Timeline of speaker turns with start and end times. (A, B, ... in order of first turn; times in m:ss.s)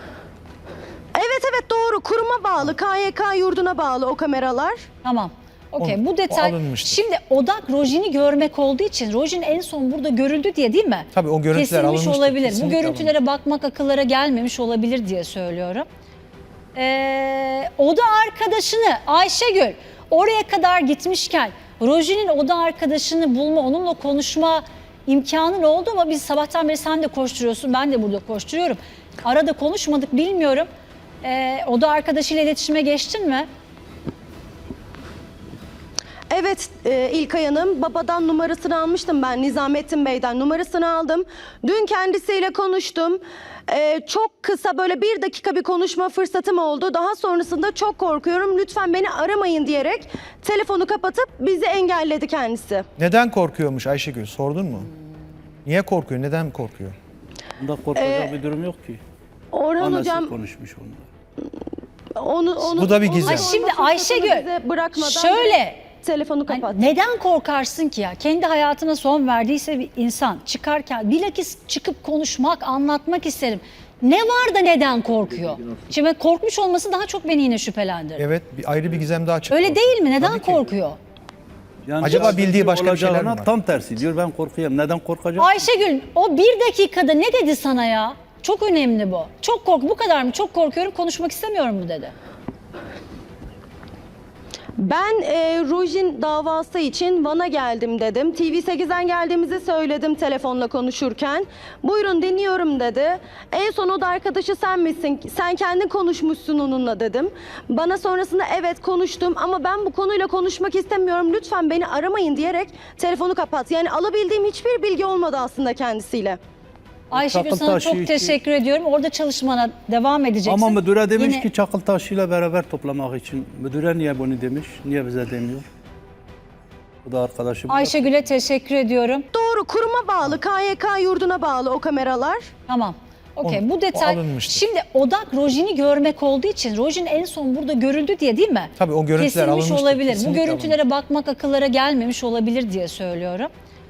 0:01.1-0:04.9 A
0:05.0-0:15.9 B
0:05.8-0:07.0 C
0:11.1-0:13.1 C
0:16.7-0:30.7 B
0:31.2-0:33.5 B
0:36.3-0:52.8 A
0:53.0-0:54.9 C
0:55.6-0:56.9 C
0:57.6-0:59.0 D
0:58.0-0:58.3 A
0:59.5-1:00.3 A
0:59.8-1:01.1 D
1:02.1-1:06.9 A
1:02.7-1:03.5 C
1:03.2-1:05.8 B
1:06.5-1:18.2 B
1:18.2-1:20.7 C
1:19.5-1:21.0 B
1:21.8-1:25.6 D
1:22.0-1:23.5 C
1:25.4-1:32.1 B
1:34.8-1:56.4 A
1:57.1-1:58.4 D
1:57.1-2:01.4 B
2:00.4-2:05.6 D
2:07.0-2:08.2 D
2:07.7-2:09.3 B
2:09.3-2:12.5 A
2:12.7-2:23.5 B
2:13.4-2:14.7 C
2:18.8-2:20.8 C